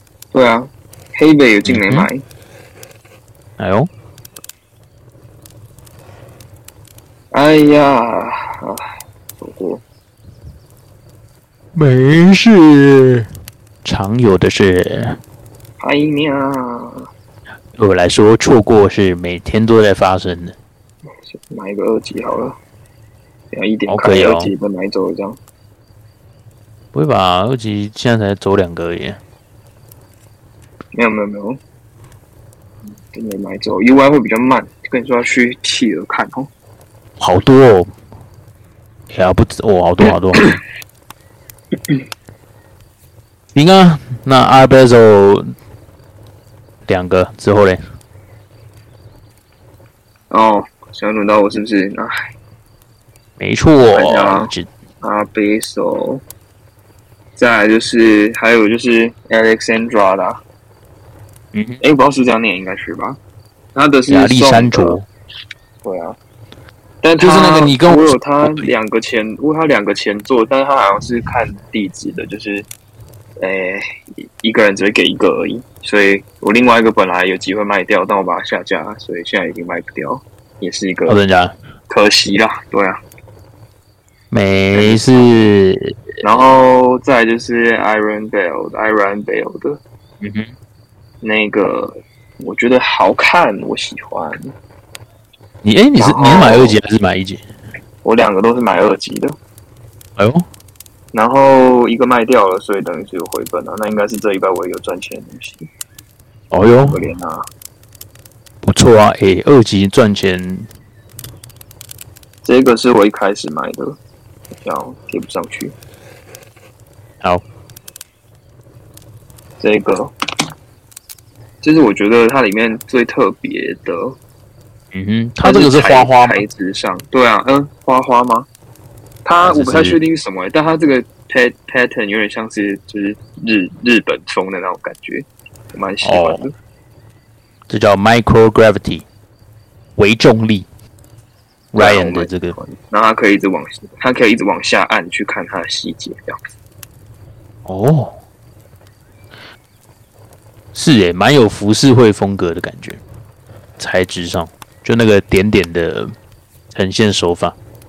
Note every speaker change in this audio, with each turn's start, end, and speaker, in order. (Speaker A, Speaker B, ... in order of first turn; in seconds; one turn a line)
Speaker A: 0.3-2.2
Speaker B: 1.6-2.1
Speaker B: 3.6-3.9
Speaker A: 7.3-8.8
Speaker A: 9.4-9.8
Speaker B: 11.7-13.3
Speaker B: 13.8-15.2
Speaker A: 15.8-17.0
Speaker B: 17.8-20.5
Speaker A: 21.2-22.6
Speaker A: 23.5-25.4
Speaker B: 23.9-24.5
Speaker B: 26.9-29.2
Speaker A: 30.9-31.6
Speaker A: 33.1-36.5
Speaker B: 37.2-37.9
Speaker B: 39.1-40.5
Speaker B: 43.5-45.5
Speaker B: 46.9-47.8
Speaker A: 50.3-52.1
Speaker B: 53.4-54.7
Speaker A: 53.9-54.5
Speaker A: 55.0-56.2
Speaker A: 57.4-60.4
Speaker B: 61.5-61.8
Speaker A: 61.8-63.2
Speaker A: 63.7-65.0
Speaker B: 64.1-65.0
Speaker A: 65.8-66.2
Speaker A: 67.0-72.7
Speaker B: 67.2-68.7
Speaker A: 73.4-73.8
Speaker A: 74.4-81.2
Speaker B: 81.1-81.5
Speaker A: 81.9-83.0
Speaker B: 84.3-85.9
Speaker A: 84.7-85.5
Speaker A: 86.2-89.8
Speaker B: 90.2-90.5
Speaker A: 91.2-94.4
Speaker B: 95.6-97.4
Speaker A: 96.0-96.8
Speaker A: 98.0-99.3
Speaker B: 100.2-100.4
Speaker A: 101.1-105.7
Speaker B: 106.5-107.0
Speaker A: 106.9-107.4
Speaker B: 108.6-110.7
Speaker A: 112.4-114.0
Speaker A: 114.6-115.7
Speaker A: 119.6-120.1
Speaker A: 121.6-124.2
Speaker B: 124.9-126.4
Speaker A: 125.4-128.5
Speaker A: 129.2-136.5
Speaker B: 129.4-130.0
Speaker B: 136.0-136.4
Speaker B: 137.7-139.0
Speaker B: 140.0-140.7
Speaker B: 141.7-142.6
Speaker A: 141.8-146.3
Speaker B: 147.7-148.2
Speaker B: 150.7-153.0
Speaker B: 153.8-156.1
Speaker B: 156.7-157.5